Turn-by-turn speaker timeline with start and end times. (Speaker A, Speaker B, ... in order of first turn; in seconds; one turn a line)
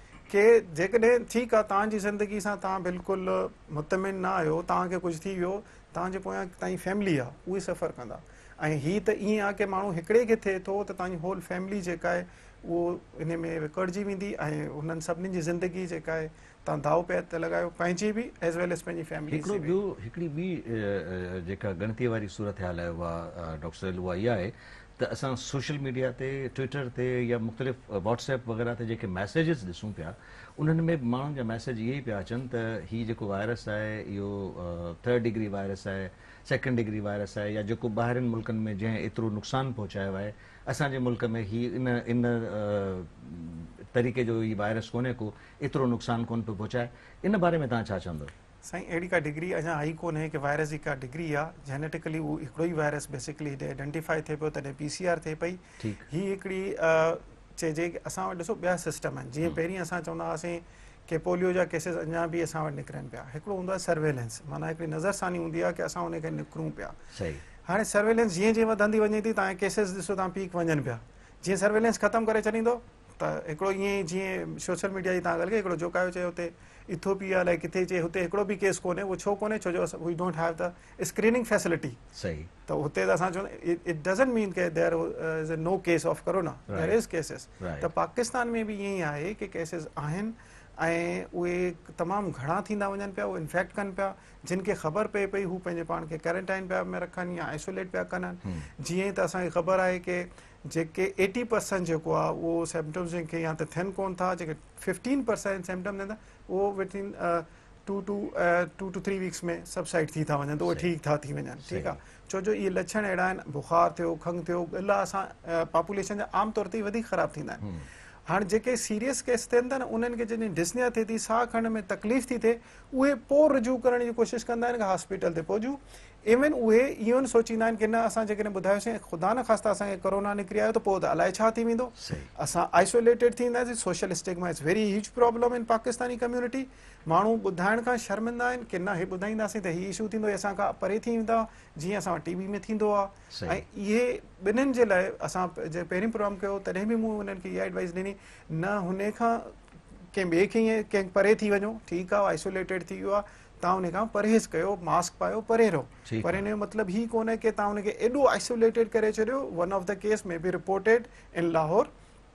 Speaker A: 0.3-19.7
Speaker B: 19.3-48.3
Speaker A: 48.6-67.0
Speaker B: 55.8-56.0
Speaker B: 67.1-67.4
Speaker A: 67.7-82.0
Speaker B: 82.2-82.5
Speaker A: 82.7-117.6
Speaker B: 86.7-87.0
Speaker B: 87.6-87.9
Speaker B: 111.7-112.0
Speaker A: 118.3-149.5
Speaker B: 132.0-132.3
Speaker B: 143.3-143.6
Speaker A: 150.1-161.9
Speaker B: 156.1-156.4